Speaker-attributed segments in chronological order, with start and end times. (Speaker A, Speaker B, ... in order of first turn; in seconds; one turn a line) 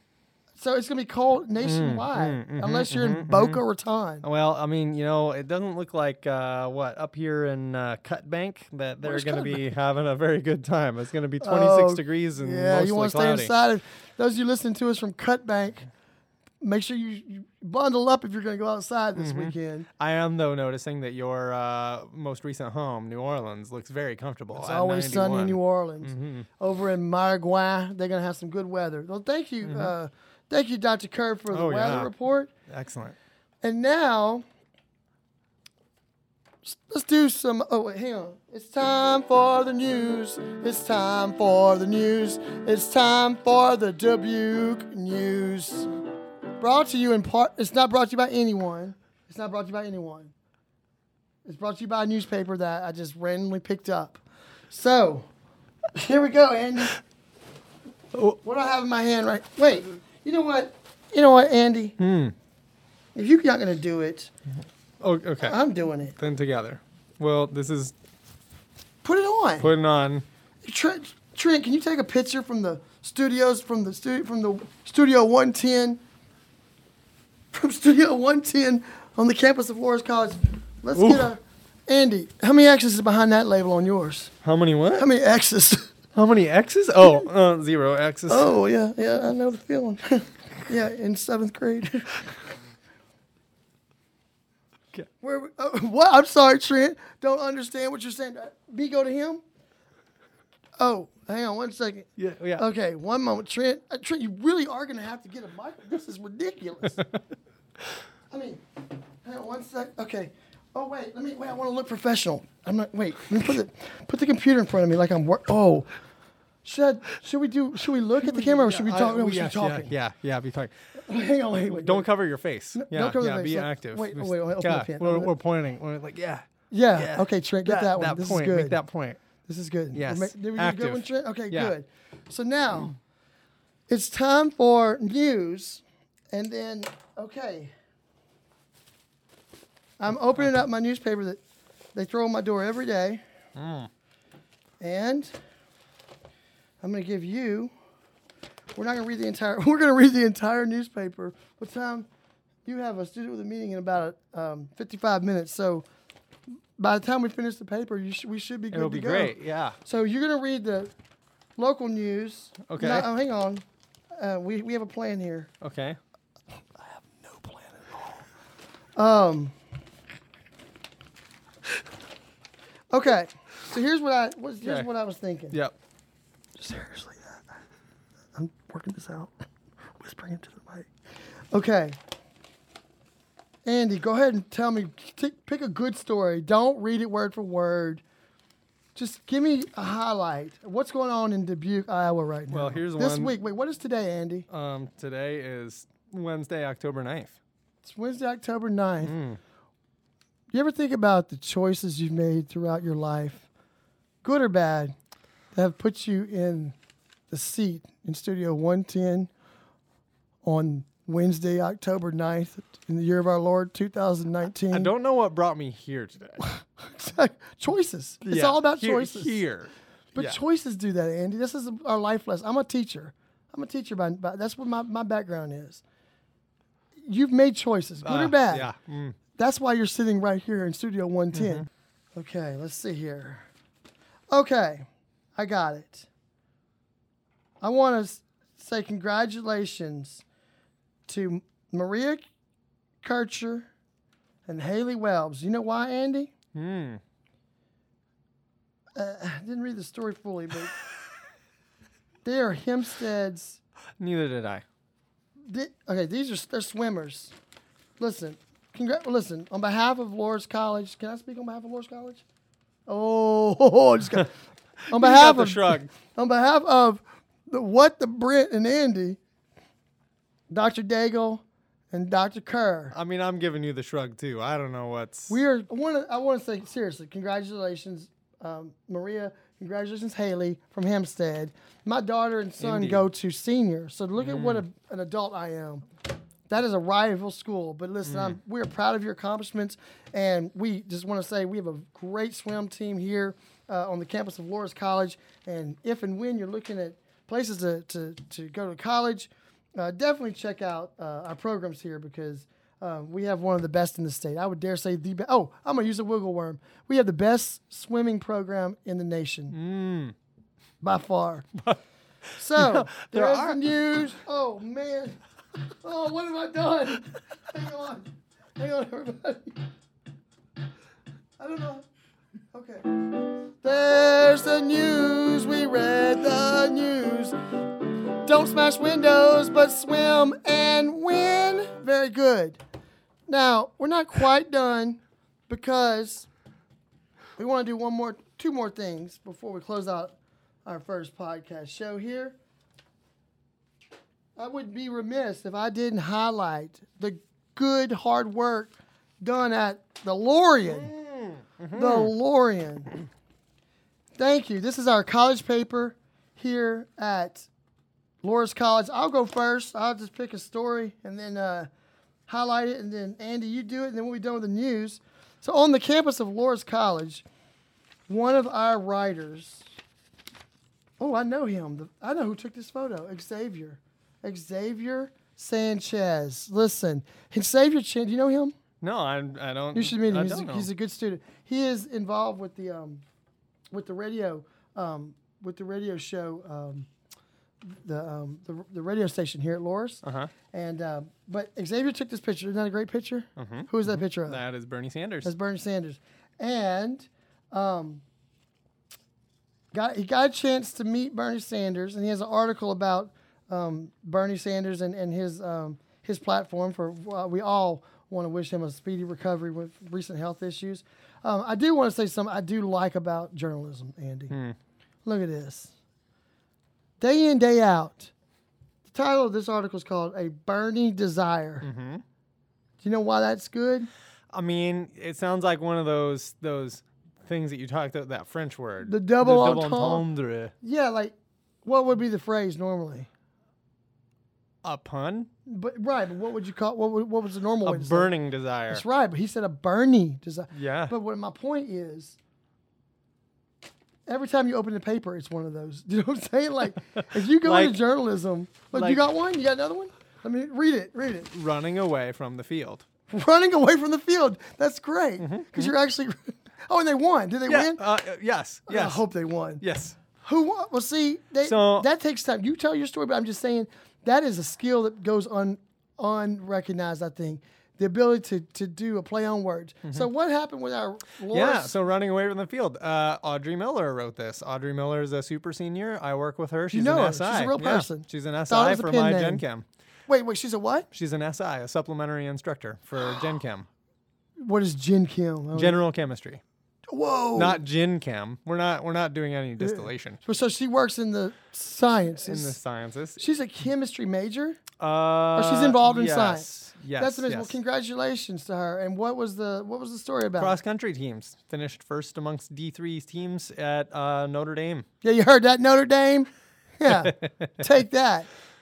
Speaker A: 0.6-4.2
Speaker B: 1.6-3.6
Speaker B: 4.2-13.5
Speaker A: 9.0-9.7
Speaker A: 11.4-15.9
Speaker A: 16.6-19.9
Speaker B: 19.1-26.5
Speaker A: 24.5-32.5
Speaker B: 29.6-29.9
Speaker B: 31.5-32.1
Speaker B: 32.7-33.1
Speaker A: 33.6-34.4
Speaker A: 36.6-45.9
Speaker A: 46.6-50.3
Speaker A: 51.4-55.3
Speaker A: 55.9-57.0
Speaker A: 58.4-62.0
Speaker B: 62.0-62.3
Speaker A: 63.1-64.3
Speaker B: 65.0-65.6
Speaker A: 65.4-66.2
Speaker B: 66.2-67.9
Speaker A: 69.0-69.7
Speaker B: 69.6-70.2
Speaker A: 70.6-76.0
Speaker A: 77.5-84.3
Speaker B: 80.9-81.3
Speaker B: 84.4-85.1
Speaker A: 84.9-85.9
Speaker B: 86.1-88.5
Speaker A: 88.3-92.2
Speaker A: 95.2-99.4
Speaker A: 100.8-107.0
Speaker B: 102.2-102.6
Speaker A: 108.3-108.6
Speaker A: 109.2-115.9
Speaker A: 116.6-119.9
Speaker B: 118.2-120.7
Speaker A: 121.0-122.1
Speaker B: 121.7-129.2
Speaker A: 122.7-125.3
Speaker A: 126.7-128.8
Speaker A: 129.4-132.9
Speaker B: 129.9-131.7
Speaker A: 133.9-137.7
Speaker A: 140.0-141.4
Speaker A: 141.9-143.2
Speaker B: 143.5-143.9
Speaker A: 144.8-145.3
Speaker A: 146.8-147.7
Speaker A: 148.8-152.1
Speaker A: 152.6-155.8
Speaker A: 156.8-160.9
Speaker B: 158.7-159.8
Speaker A: 161.6-163.6
Speaker B: 162.7-163.1
Speaker A: 164.2-165.5
Speaker B: 165.6-166.0
Speaker A: 166.9-168.2
Speaker A: 168.9-169.5
Speaker A: 172.9-175.6
Speaker B: 174.6-174.9
Speaker A: 176.6-177.6
Speaker A: 178.3-179.3
Speaker A: 180.0-180.9
Speaker A: 181.5-182.0
Speaker A: 183.6-188.0
Speaker A: 188.9-194.5
Speaker B: 192.5-193.3
Speaker B: 194.5-197.4
Speaker A: 197.8-199.2
Speaker B: 199.0-199.4
Speaker A: 200.5-203.4
Speaker A: 204.2-204.9
Speaker A: 205.5-206.7
Speaker A: 207.3-209.3
Speaker A: 210.4-214.9
Speaker B: 214.7-216.4
Speaker A: 216.4-219.4
Speaker B: 218.2-220.4
Speaker A: 220.1-225.8
Speaker A: 227.0-228.7
Speaker B: 228.0-229.2
Speaker A: 229.3-233.4
Speaker B: 231.3-231.7
Speaker A: 234.3-236.1
Speaker A: 237.6-240.2
Speaker A: 241.1-242.2
Speaker A: 243.0-243.7
Speaker A: 244.5-246.3
Speaker B: 246.5-247.0
Speaker A: 248.9-250.8
Speaker A: 252.2-253.6
Speaker B: 254.0-254.6
Speaker A: 255.5-257.3
Speaker A: 258.0-262.2
Speaker A: 262.9-264.3
Speaker A: 264.9-269.2
Speaker B: 264.9-265.9
Speaker A: 270.5-272.9
Speaker B: 272.9-275.4
Speaker A: 275.3-285.8
Speaker B: 282.6-283.1
Speaker B: 284.2-284.6
Speaker A: 286.5-309.6
Speaker B: 288.0-288.4
Speaker B: 309.5-310.1
Speaker A: 310.8-311.5
Speaker A: 312.3-315.2
Speaker B: 312.5-313.6
Speaker A: 315.8-319.6
Speaker A: 321.4-321.8
Speaker A: 322.5-323.0
Speaker A: 323.6-327.4
Speaker A: 328.2-332.6
Speaker A: 333.3-336.3
Speaker A: 337.4-342.4
Speaker A: 344.4-350.9
Speaker B: 350.6-352.1
Speaker A: 351.7-352.9
Speaker A: 354.2-357.5
Speaker A: 358.2-361.7
Speaker A: 362.3-367.2
Speaker A: 368.1-369.6
Speaker A: 371.0-378.5
Speaker B: 378.8-380.7
Speaker A: 379.7-383.0
Speaker A: 383.7-386.9
Speaker A: 387.6-394.4
Speaker B: 390.0-390.3
Speaker B: 393.4-395.3
Speaker A: 395.2-398.0
Speaker A: 399.7-414.3
Speaker B: 414.3-414.6
Speaker A: 415.0-415.7
Speaker A: 417.0-418.1
Speaker A: 418.9-421.7
Speaker B: 421.6-422.0
Speaker A: 422.8-423.9
Speaker B: 424.3-430.5
Speaker A: 428.8-430.1
Speaker A: 430.6-433.1
Speaker B: 434.6-435.3
Speaker A: 435.4-438.1
Speaker B: 437.6-438.8
Speaker A: 438.7-442.2
Speaker B: 440.5-440.9
Speaker A: 444.1-451.3
Speaker B: 446.9-447.8
Speaker B: 448.7-449.0
Speaker B: 451.3-452.9
Speaker A: 453.1-457.8
Speaker B: 455.2-455.7
Speaker B: 457.5-459.0
Speaker A: 458.7-459.6
Speaker B: 459.6-459.9
Speaker A: 460.2-471.8
Speaker B: 461.4-461.9
Speaker B: 471.3-479.6
Speaker A: 476.7-479.4
Speaker A: 480.1-480.9
Speaker B: 480.9-483.7
Speaker A: 484.4-485.9
Speaker B: 485.5-486.4
Speaker A: 486.9-487.6
Speaker B: 487.4-490.2
Speaker A: 489.6-492.6
Speaker B: 492.2-493.2
Speaker A: 493.2-494.6
Speaker B: 494.8-497.6
Speaker A: 495.3-500.6
Speaker B: 500.4-504.9
Speaker A: 505.0-506.3
Speaker A: 506.8-508.3
Speaker B: 506.9-507.3